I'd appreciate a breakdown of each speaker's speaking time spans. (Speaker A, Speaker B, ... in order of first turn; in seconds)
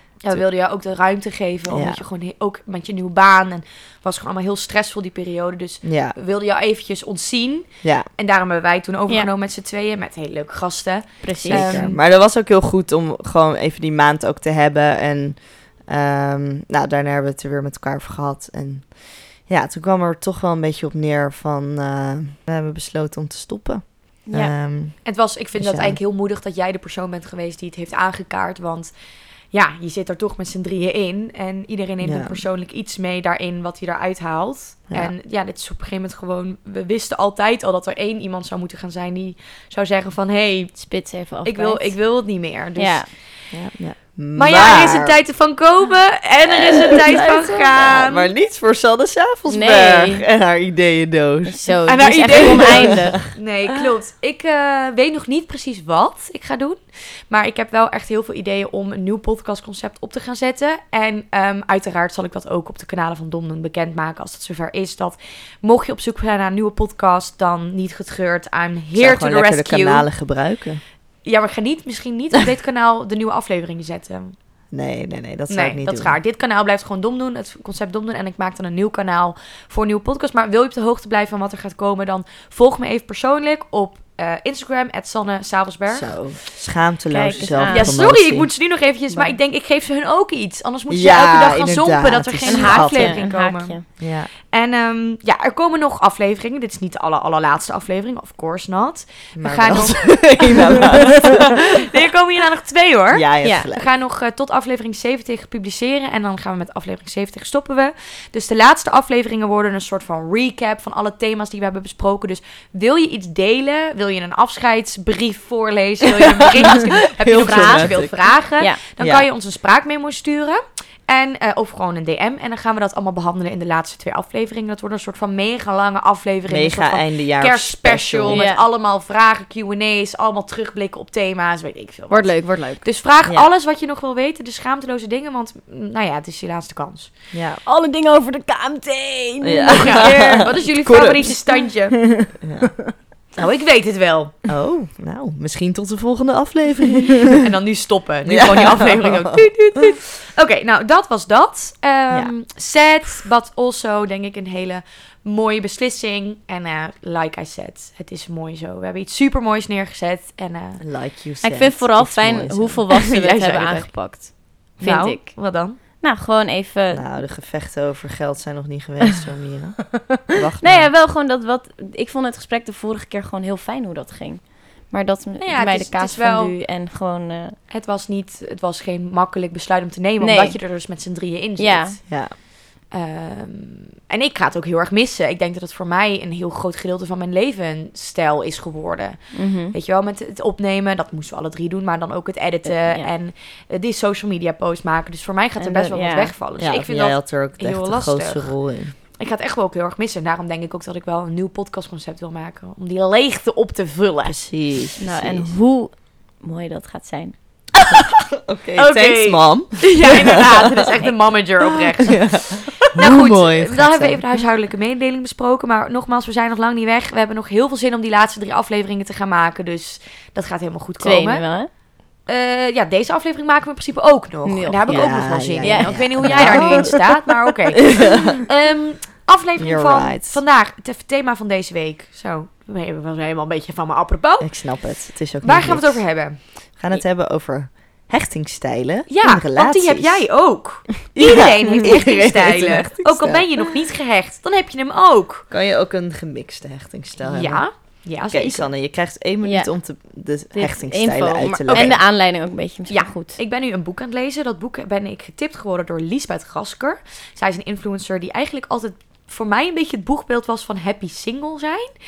Speaker A: 0.2-12.0, 25.0-28.9, 29.5-43.1, 44.3-48.3, 51.8-70.1, 71.2-74.3, 75.5-86.2, 87.6-137.1, 139.7-142.1, 143.3-144.3, 147.4-160.8, 162.9-165.8, 175.4-176.5, 177.7-182.2, 182.9-198.6, 199.1-204.4, 208.8-221.4, 222.3-234.7, 235.4-236.4, 239.1-245.5, 247.2-248.7, 251.7-252.0, 252.9-261.9
Speaker B: 1.7-2.0, 5.8-6.1, 7.8-8.1, 11.4-26.0, 32.0-32.4, 43.5-45.2, 47.7-51.7, 52.2-53.2, 68.9-70.8, 74.7-76.2, 85.9-88.5, 90.9-93.3, 94.0-94.3, 99.3-101.5, 103.1-103.9, 116.3-118.1, 119.0-119.2, 126.5-128.4, 137.3-137.6, 139.4-141.3, 142.3-142.8, 144.5-147.4, 148.3-149.4, 160.8-162.8, 166.9-170.9, 182.1-182.3, 196.6-198.9, 204.2-205.5, 208.4-210.9, 212.1-214.2, 224.9-227.0, 229.6-230.4, 234.4-240.3, 241.1-243.5, 245.5-247.6, 248.3-252.0
Speaker C: 11.2-11.9, 24.2-24.5, 40.7-42.2, 42.8-43.1, 47.0-47.7, 49.5-50.2, 51.4-53.3, 87.1-88.0, 92.5-93.8, 103.4-103.7, 117.3-117.9, 128.3-128.6, 132.1-132.9, 137.7-140.5, 161.4-167.0, 170.1-177.6, 180.2-180.6, 181.6-181.9, 189.3-189.7, 192.6-193.1, 195.6-196.3, 205.0-207.3, 221.0-221.7, 224.4-227.0, 249.4-249.7, 250.5-253.4